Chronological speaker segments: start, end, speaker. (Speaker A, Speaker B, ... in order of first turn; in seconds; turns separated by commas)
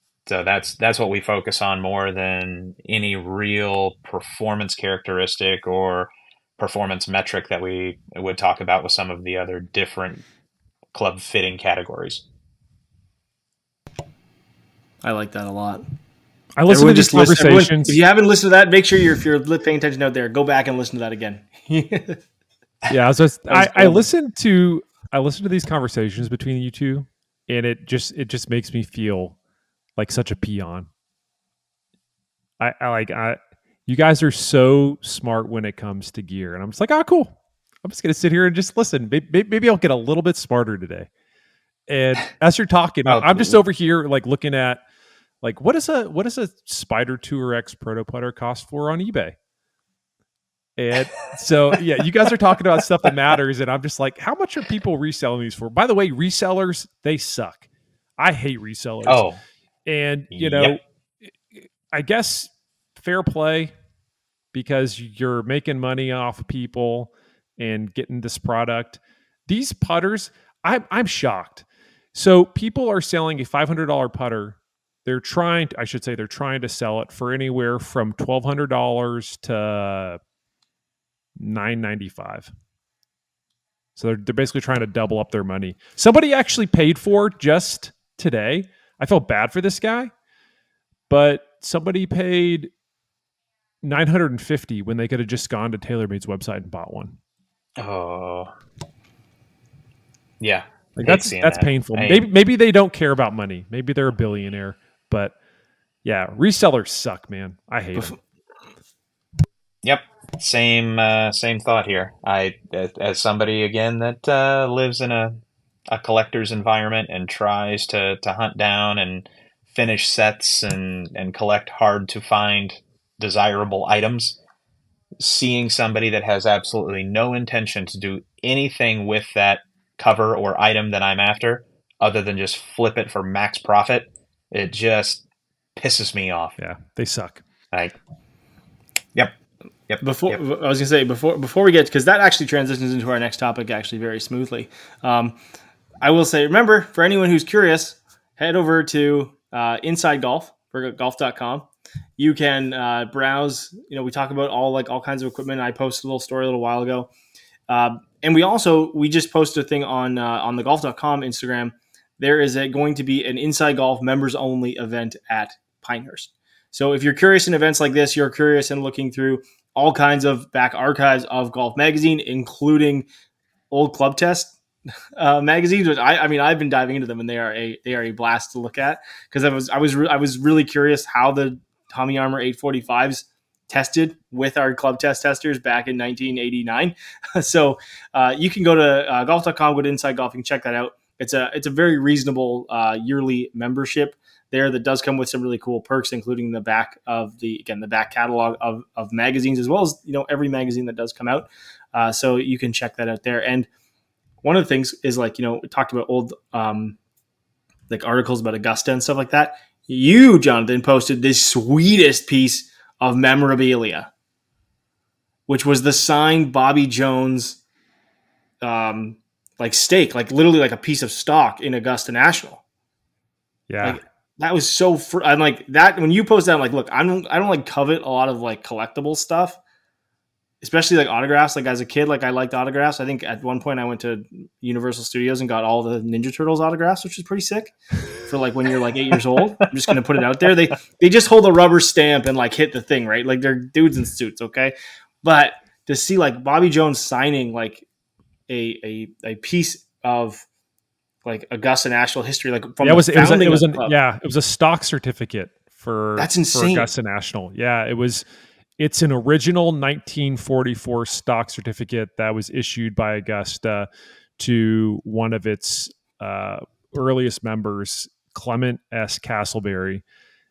Speaker A: 0.3-10.2, Speaker A: 10.9-12.2, Speaker B: 15.0-15.8, Speaker C: 16.6-18.0, Speaker B: 16.7-22.2, Speaker C: 22.9-29.4, Speaker B: 23.5-24.0, Speaker C: 30.0-30.9, Speaker C: 32.6-41.1, Speaker C: 41.9-44.8, Speaker A: 43.1-43.6, Speaker C: 45.4-49.4, Speaker C: 50.8-57.6, Speaker C: 58.2-59.2, Speaker A: 59.1-59.4, Speaker C: 59.9-60.8, Speaker A: 60.3-60.8, Speaker C: 61.9-63.7, Speaker C: 64.5-80.2, Speaker C: 81.4-82.5, Speaker C: 84.0-90.1, Speaker C: 91.1-92.7, Speaker C: 93.8-97.2, Speaker A: 97.8-98.5, Speaker A: 100.4-102.2, Speaker C: 101.0-105.3, Speaker C: 106.0-108.2, Speaker A: 109.8-124.4, Speaker A: 125.2-135.2, Speaker A: 135.8-136.6, Speaker C: 136.6-137.4, Speaker A: 139.9-140.4, Speaker B: 140.0-145.4, Speaker B: 146.0-151.7, Speaker B: 152.2-157.1, Speaker B: 157.7-173.1, Speaker B: 173.7-174.6, Speaker B: 175.2-203.7, Speaker B: 204.4-207.0, Speaker B: 207.9-214.1, Speaker B: 215.5-217.6, Speaker B: 218.6-222.6, Speaker C: 223.7-224.0, Speaker B: 223.8-229.6, Speaker B: 230.6-247.8, Speaker B: 248.5-250.4, Speaker B: 251.2-253.9, Speaker C: 252.8-258.2, Speaker B: 256.2-256.9, Speaker C: 258.8-263.9, Speaker C: 264.4-270.0